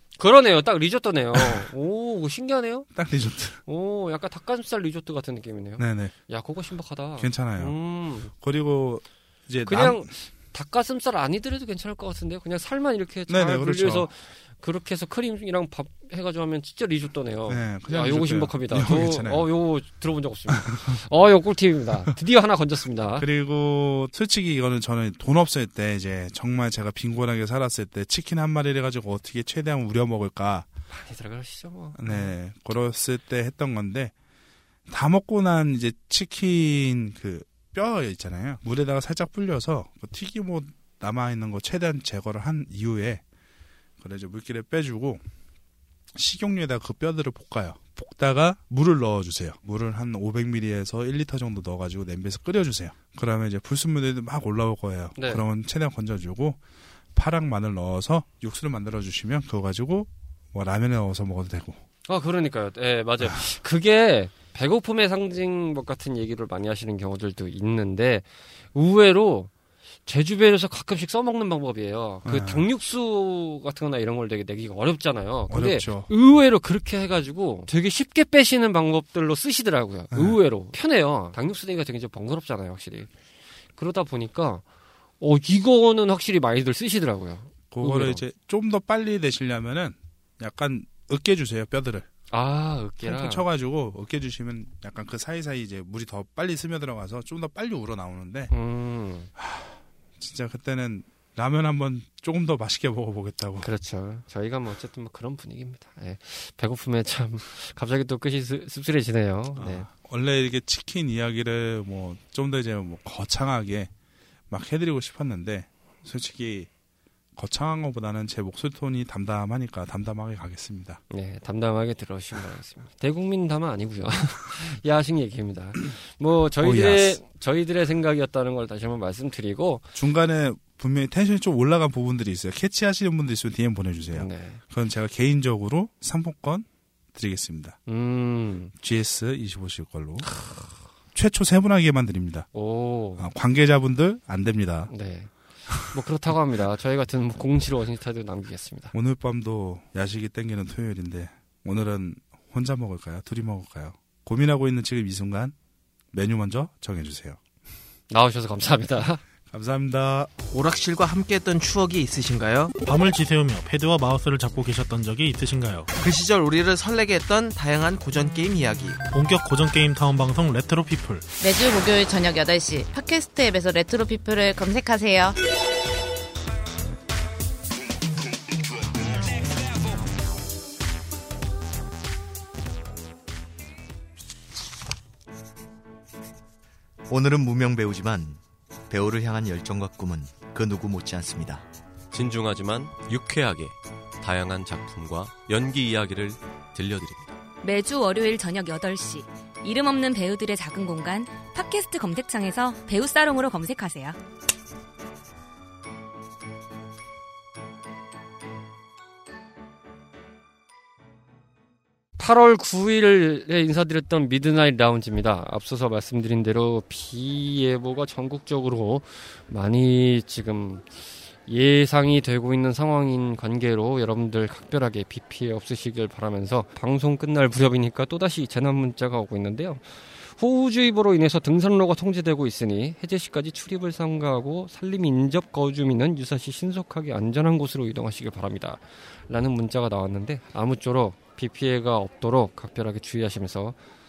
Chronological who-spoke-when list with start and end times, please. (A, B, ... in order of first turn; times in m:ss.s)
0:00.2-0:02.9 A
0:01.3-0:01.6 B
0:02.9-0:03.6 B
0:03.7-0:08.3 A
0:05.8-0:06.1 B
0:07.2-0:07.8 B
0:08.3-0:10.1 B
0:09.7-0:23.3 A
0:13.3-0:14.1 B
0:17.5-0:19.5 B
0:20.5-0:20.8 B
0:23.2-0:30.7 B
0:30.9-0:32.3 A
0:32.0-0:34.1 B
0:34.9-0:43.2 B
0:44.0-0:45.2 B
0:46.1-0:56.6 B
0:55.2-0:55.4 A
0:57.1-1:01.8 B
1:02.0-1:09.5 A
1:10.0-1:23.1 A
1:12.2-1:12.7 B
1:15.5-1:16.1 B
1:20.1-1:20.4 B
1:23.8-1:24.6 A
1:25.2-1:28.2 A
1:27.7-1:32.1 B
1:32.3-1:33.4 A
1:33.0-1:38.5 B
1:38.5-1:39.3 A
1:39.4-1:43.7 B
1:43.6-1:49.9 A
1:49.6-1:53.9 B
1:54.5-1:56.7 B
1:57.4-2:01.0 B
2:01.1-2:09.8 A
2:06.6-2:07.2 B
2:10.0-2:17.8 B
2:14.1-2:14.6 A
2:17.9-2:18.7 A
2:18.8-2:20.3 B
2:20.3-2:20.7 A
2:21.1-2:22.5 B
2:22.5-2:23.3 A
2:23.2-2:24.9 B
2:24.9-2:28.9 A
2:28.9-2:35.6 B
2:36.1-2:37.4 B
2:38.1-2:39.2 A
2:39.5-2:40.3 B
2:40.5-2:42.8 C
2:42.8-2:45.9 D
2:46.0-2:49.0 C
2:49.1-2:51.3 D
2:51.4-2:55.4 E
3:07.1-3:11.7 F
3:12.1-3:17.2 G
3:17.6-3:24.2 H
3:32.2-3:40.9 A
3:41.4-4:03.8 A